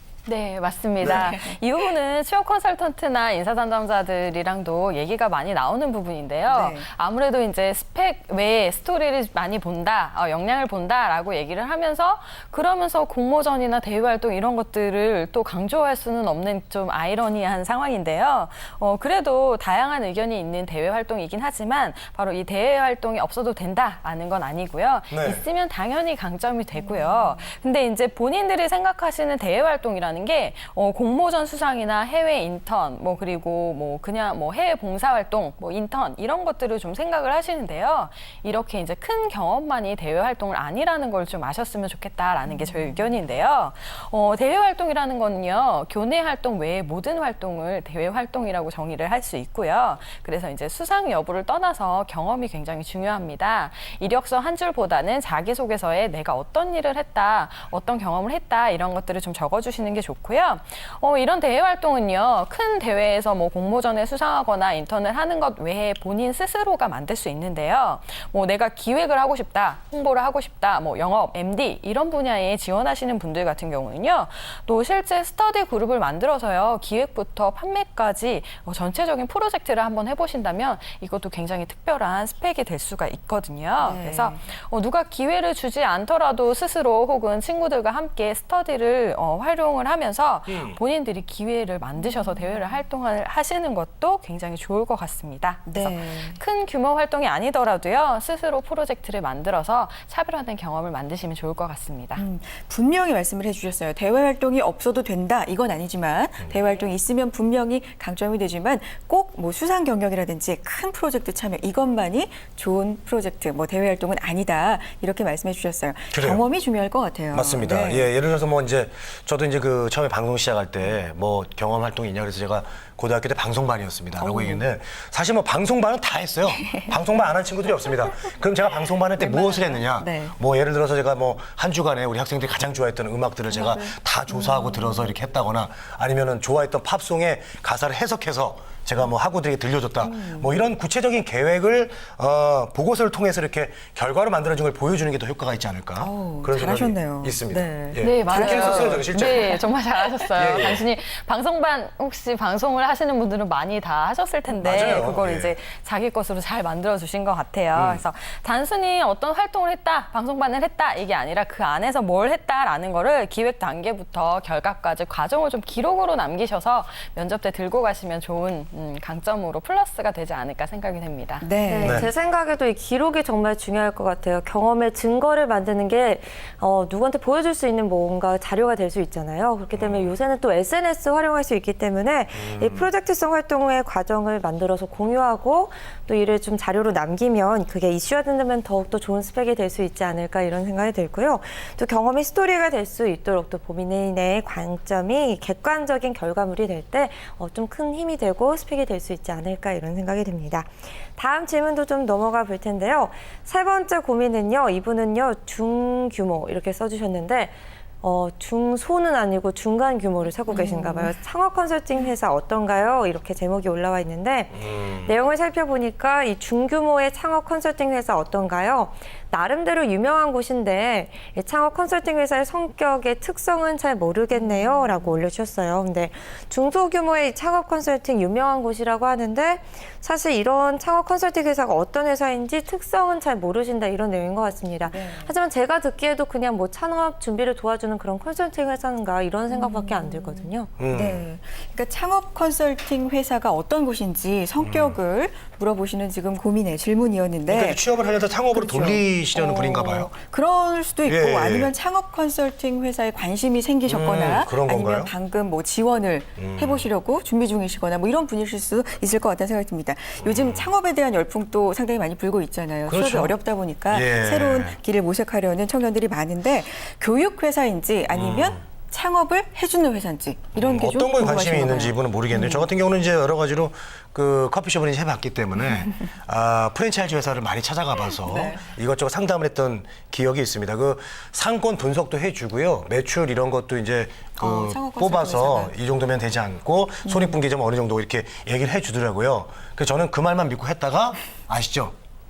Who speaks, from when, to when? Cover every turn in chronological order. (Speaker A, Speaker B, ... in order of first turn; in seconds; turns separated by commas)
Speaker A: 0.2-102.2, Speaker B: 1.0-1.3, Speaker C: 1.2-1.6, Speaker C: 6.5-6.9, Speaker B: 25.1-25.4, Speaker C: 26.7-27.5, Speaker C: 42.5-43.1, Speaker C: 83.8-84.5, Speaker B: 90.5-90.8, Speaker C: 95.7-96.4, Speaker C: 102.2-118.1, Speaker B: 116.1-116.4, Speaker B: 117.3-149.6, Speaker C: 124.2-124.6, Speaker C: 129.2-130.4, Speaker C: 133.5-135.1, Speaker C: 140.0-140.6, Speaker C: 146.0-149.6, Speaker A: 148.0-171.5, Speaker B: 150.3-150.8, Speaker B: 154.6-155.5, Speaker B: 157.7-158.0, Speaker C: 171.4-172.1, Speaker D: 171.6-240.7, Speaker B: 171.8-172.1, Speaker B: 179.7-180.2, Speaker B: 182.3-182.9, Speaker C: 210.5-211.1, Speaker B: 214.5-215.1, Speaker C: 224.3-225.2, Speaker C: 234.9-235.3, Speaker C: 239.5-247.8, Speaker B: 240.8-241.2, Speaker B: 244.6-245.0, Speaker B: 247.5-250.1, Speaker C: 248.5-272.7, Speaker B: 251.1-251.7, Speaker B: 253.9-255.1, Speaker B: 256.4-256.9, Speaker B: 260.2-260.7, Speaker B: 262.9-263.4, Speaker B: 263.9-264.8, Speaker B: 268.1-268.6, Speaker B: 270.5-291.9, Speaker C: 278.2-278.7, Speaker C: 284.4-285.7, Speaker C: 287.0-287.4